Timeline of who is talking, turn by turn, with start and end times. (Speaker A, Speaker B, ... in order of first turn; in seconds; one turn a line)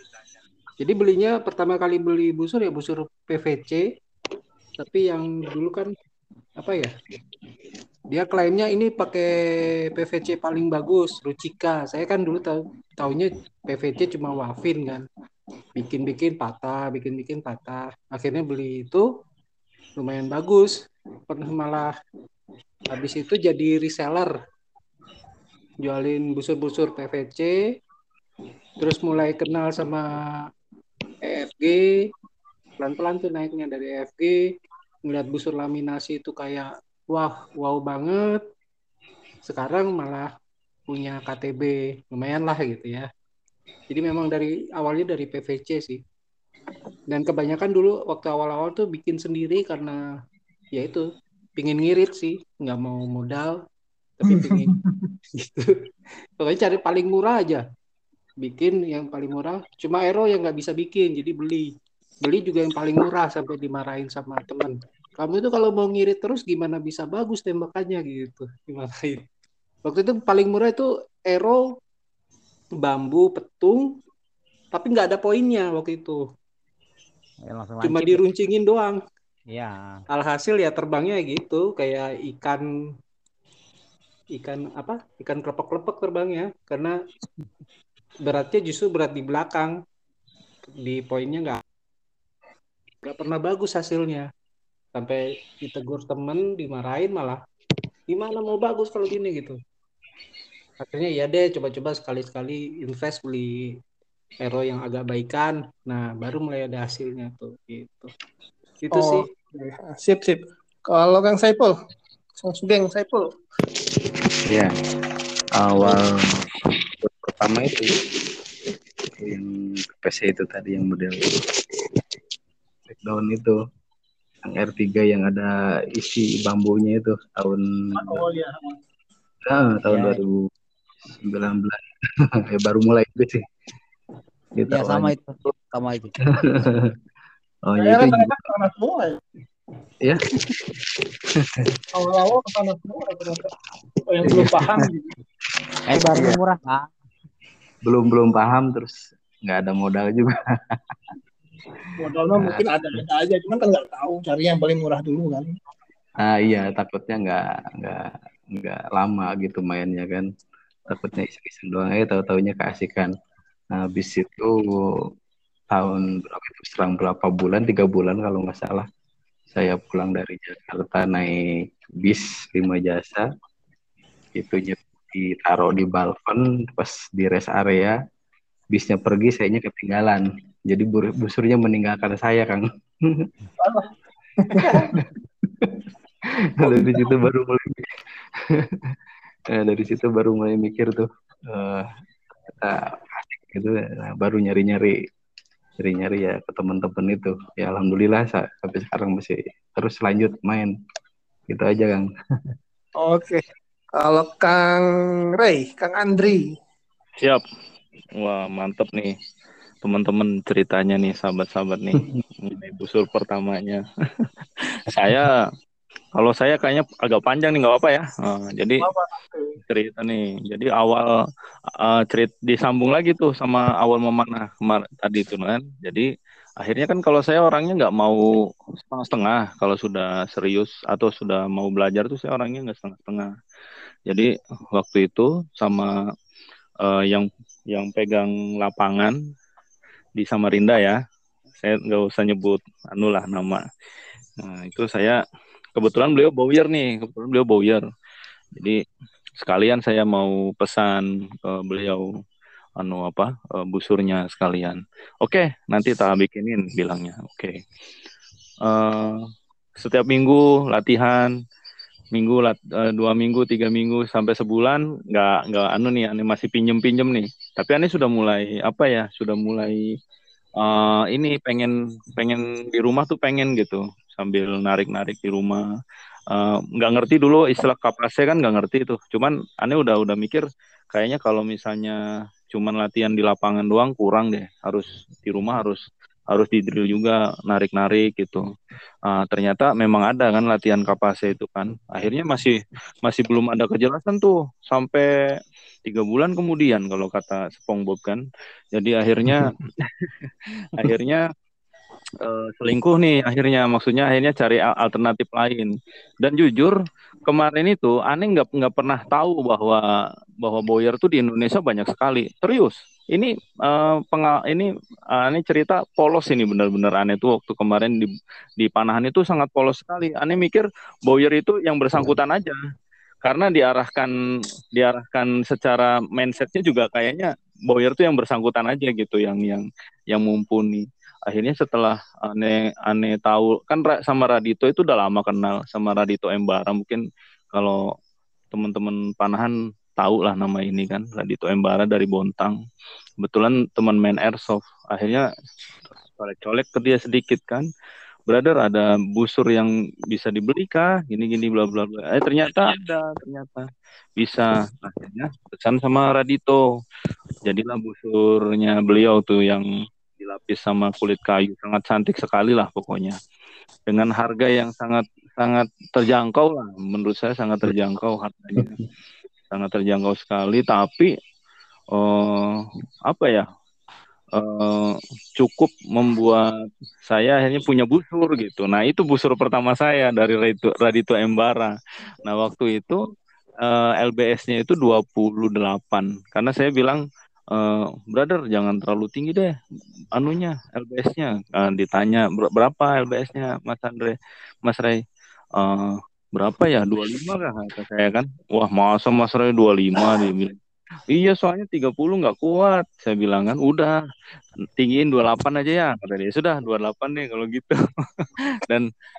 Speaker A: 0.8-3.8
Speaker A: 4.8-5.9
Speaker A: 6.6-6.9
Speaker A: 8.1-15.0
Speaker A: 15.8-19.0
Speaker A: 20.0-20.7
Speaker A: 21.3-21.9
Speaker A: 22.9-24.3
Speaker A: 25.8-27.5
Speaker A: 28.8-30.1
Speaker A: 31.2-32.1
Speaker A: 32.8-34.4
Speaker A: 35.0-38.4
Speaker A: 39.4-40.3
Speaker A: 40.9-43.1
Speaker A: 43.9-46.0
Speaker A: 47.1-50.0
Speaker A: 50.7-51.0
Speaker A: 51.6-53.5
Speaker A: 54.2-54.7
Speaker B: 54.3-55.1
Speaker A: 55.4-55.7
Speaker A: 56.4-57.6
Speaker A: 58.4-69.2
Speaker A: 69.8-71.6
Speaker A: 72.8-73.9
Speaker A: 74.7-76.2
Speaker C: 77.5-78.2
Speaker A: 77.8-79.0
Speaker C: 79.5-80.0
Speaker A: 80.1-82.6
Speaker A: 84.3-87.0
Speaker A: 88.2-89.8
Speaker A: 90.8-91.6
Speaker A: 93.0-94.3
Speaker A: 94.9-97.4
Speaker A: 98.1-99.6
Speaker A: 100.8-103.8
Speaker A: 104.4-108.1
Speaker A: 108.8-109.3
Speaker B: 108.9-111.7
Speaker B: 112.4-113.3
Speaker D: 115.6-118.0
Speaker D: 119.2-121.4
Speaker D: 122.9-123.5
Speaker D: 124.5-128.2
Speaker B: 127.9-128.8
Speaker D: 129.4-130.5
Speaker C: 129.9-130.2
Speaker D: 131.1-133.4
Speaker D: 134.5-135.1
Speaker C: 134.7-136.2
Speaker D: 136.3-136.9
Speaker D: 137.7-138.4
Speaker B: 137.8-139.2
Speaker D: 140.0-140.8
Speaker D: 141.3-141.8
Speaker B: 141.9-143.5
Speaker B: 144.1-145.1
Speaker D: 144.2-144.9
Speaker C: 145.9-146.9
Speaker D: 146.1-146.4
Speaker D: 147.8-151.2
Speaker D: 151.8-153.0
Speaker B: 151.9-155.5
Speaker D: 156.2-160.2
Speaker D: 160.9-163.1
Speaker D: 163.7-165.0
Speaker D: 165.7-168.8
Speaker D: 169.5-171.4
Speaker D: 172.0-173.3
Speaker D: 174.3-177.9
Speaker D: 178.7-183.3
Speaker B: 183.6-183.9
Speaker B: 184.4-185.0
Speaker D: 184.6-187.9
Speaker B: 186.6-187.1
Speaker D: 188.4-188.9
Speaker D: 189.5-191.9
Speaker D: 192.5-195.0
Speaker D: 195.8-200.7
Speaker D: 201.5-202.5
Speaker B: 203.0-203.4
Speaker B: 204.0-204.8
Speaker B: 205.3-206.4
Speaker E: 208.2-209.1
Speaker E: 209.8-215.3
Speaker E: 216.2-218.8
Speaker B: 218.8-219.6
Speaker E: 219.7-221.1
Speaker E: 221.8-226.1
Speaker E: 226.6-233.3
Speaker E: 234.1-235.9
Speaker E: 236.8-239.1
Speaker E: 240.2-241.0
Speaker E: 241.6-243.6
Speaker E: 244.4-245.2
Speaker E: 245.8-247.8
Speaker E: 249.4-252.0
Speaker E: 252.8-257.6
Speaker E: 258.6-259.2
Speaker E: 259.8-261.3
Speaker E: 262.1-269.8
Speaker E: 270.6-275.6
Speaker E: 276.3-282.0
Speaker E: 282.5-288.4
Speaker E: 289.1-295.1
Speaker E: 295.8-301.2
Speaker D: 299.2-299.5
Speaker E: 302.2-306.7
Speaker E: 307.3-309.8
Speaker E: 310.4-322.6
Speaker E: 323.2-324.1
Speaker E: 324.7-337.0
Speaker E: 337.5-337.8
Speaker E: 338.5-342.6
Speaker E: 343.2-345.2
Speaker E: 346.2-347.7
Speaker E: 348.3-353.6
Speaker E: 354.2-356.6
Speaker E: 357.4-359.7
Speaker E: 360.2-363.1
Speaker E: 363.9-368.8
Speaker E: 369.5-371.1
Speaker E: 371.9-373.4
Speaker E: 374.4-376.5
Speaker E: 377.1-383.0
Speaker E: 383.6-389.5
Speaker E: 390.1-395.0
Speaker E: 395.6-400.6
Speaker E: 401.1-403.9
Speaker E: 404.8-408.9